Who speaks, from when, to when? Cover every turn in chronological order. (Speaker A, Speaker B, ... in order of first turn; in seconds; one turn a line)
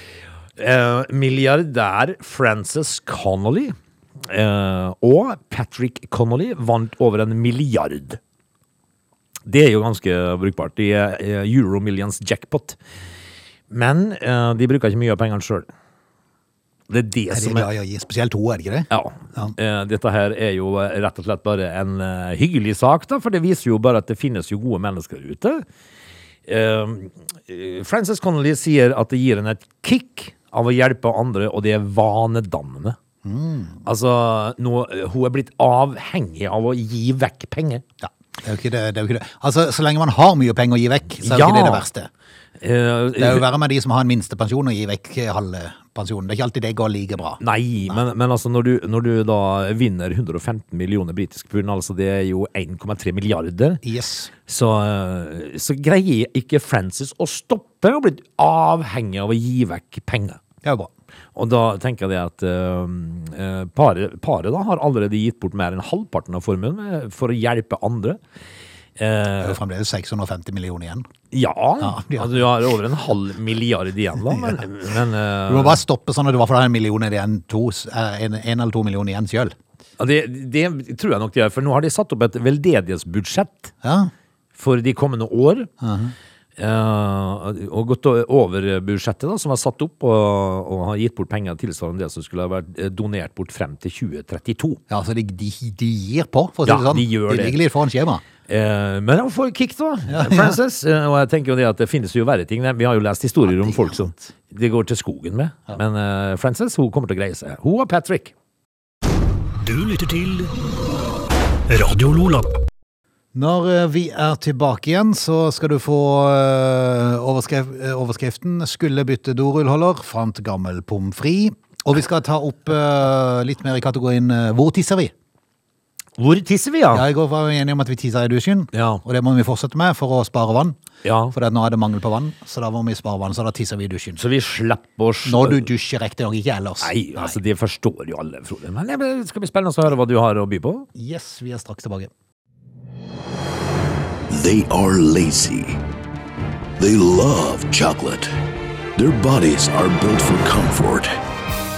Speaker A: 0.6-8.2
Speaker A: 9.5-12.8
Speaker A: 13.7-15.7
Speaker A: 16.9-17.7
Speaker B: 17.3-19.6
Speaker A: 18.9-25.6
Speaker A: 26.5-33.0
Speaker B: 33.2-33.8
Speaker A: 33.9-37.8
Speaker B: 38.0-42.1
Speaker A: 41.2-41.9
Speaker A: 42.6-43.5
Speaker B: 43.2-48.0
Speaker A: 47.4-53.8
Speaker B: 53.8-54.3
Speaker A: 54.5-60.4
Speaker B: 60.6-60.9
Speaker A: 61.4-68.2
Speaker A: 69.0-69.6
Speaker B: 69.4-71.1
Speaker A: 71.3-75.8
Speaker B: 71.8-72.4
Speaker B: 74.3-74.6
Speaker B: 75.5-79.5
Speaker A: 80.0-83.7
Speaker B: 83.8-84.1
Speaker A: 84.6-85.7
Speaker B: 85.8-86.2
Speaker A: 86.6-94.8
Speaker B: 94.9-98.2
Speaker A: 96.7-97.6
Speaker A: 98.5-108.3
Speaker B: 100.1-100.6
Speaker B: 103.5-104.3
Speaker C: 109.6-110.5
Speaker C: 111.7-112.5
Speaker B: 113.3-125.1
Speaker A: 126.2-127.1
Speaker B: 126.9-130.8
Speaker A: 128.7-129.0
Speaker A: 131.0-131.3
Speaker B: 131.3-134.2
Speaker A: 134.2-135.7
Speaker B: 135.2-137.4
Speaker A: 136.8-140.9
Speaker B: 140.9-142.1
Speaker C: 144.3-145.8
Speaker C: 146.8-148.3
Speaker C: 149.0-151.1